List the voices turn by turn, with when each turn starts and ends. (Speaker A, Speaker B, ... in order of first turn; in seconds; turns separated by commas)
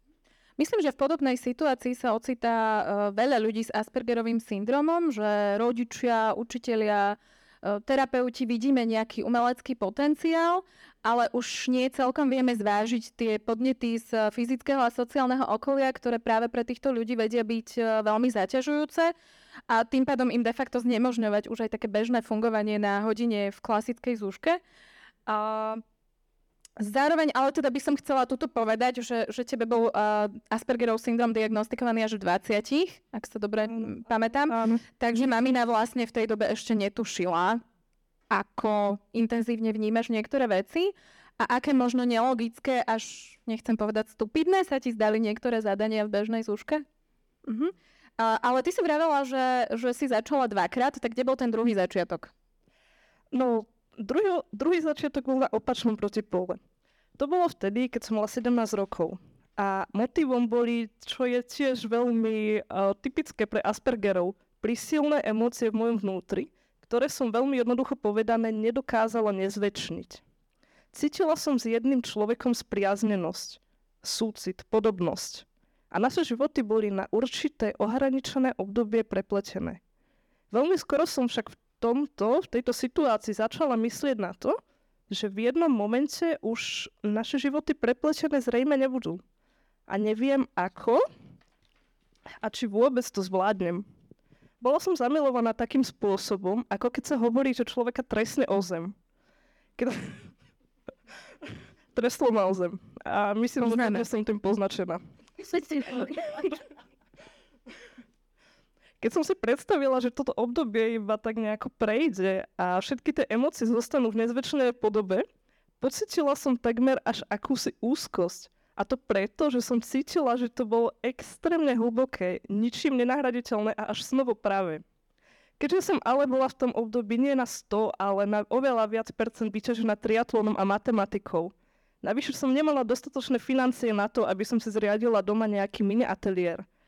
Speaker A: 0.6-19.1, Speaker A: 19.7-24.6, Speaker A: 25.3-25.8, Speaker A: 26.8-37.6, Speaker B: 34.5-34.8, Speaker A: 38.3-46.9, Speaker A: 47.5-52.3, Speaker B: 53.3-56.6, Speaker B: 57.2-70.2, Speaker B: 70.9-79.8, Speaker B: 80.5-84.6, Speaker B: 85.1-89.2, Speaker B: 89.9-91.0, Speaker B: 92.4-93.9, Speaker B: 94.6-99.0, Speaker B: 99.8-100.2, Speaker B: 101.9-106.5, Speaker A: 103.7-104.0, Speaker B: 109.0-115.3, Speaker B: 115.8-124.8, Speaker B: 125.6-136.7